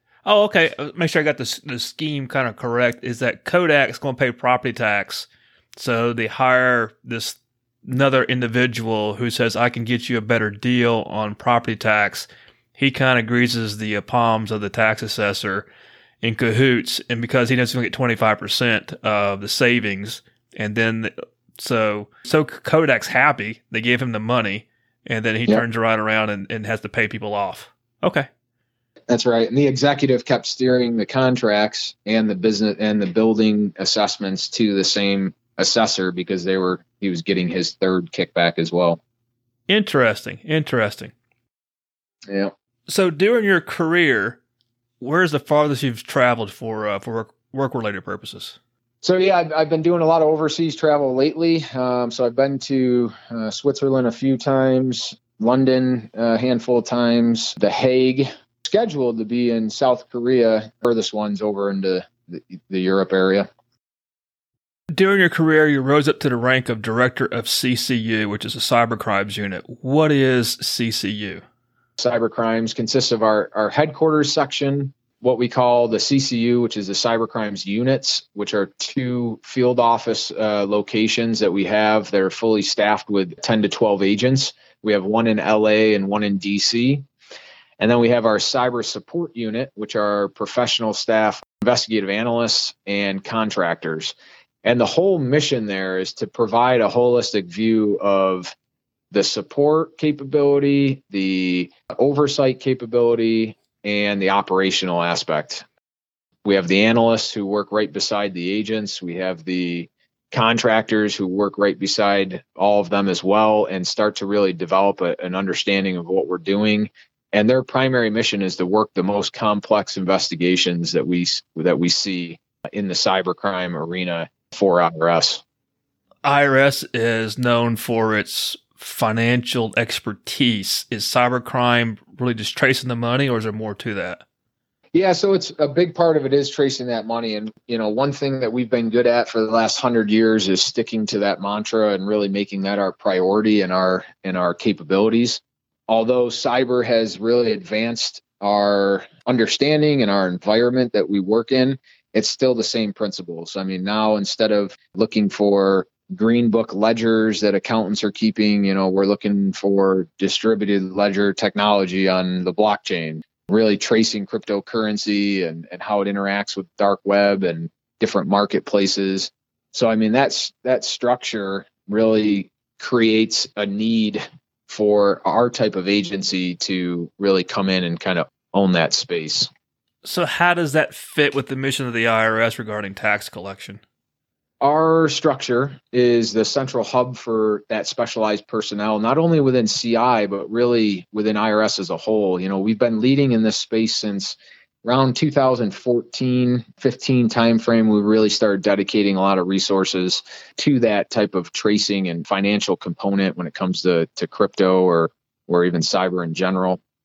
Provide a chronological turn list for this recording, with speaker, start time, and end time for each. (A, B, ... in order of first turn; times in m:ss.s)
0:00.2-0:15.6 A
0:16.2-0:28.3 A
0:29.1-0:39.0 B
0:39.7-0:41.1 A
0:42.3-0:42.5 B
0:42.9-0:44.4 A
0:45.0-0:48.6 A
0:49.0-1:03.5 B
1:04.9-1:11.4 A
1:12.0-1:27.0 B
1:27.8-1:38.5 B
1:39.1-1:45.6 B
1:46.4-2:05.4 B
2:06.2-2:14.2 A
2:14.9-2:59.5 B
3:00.0-3:03.8 A
3:04.6-3:26.8 B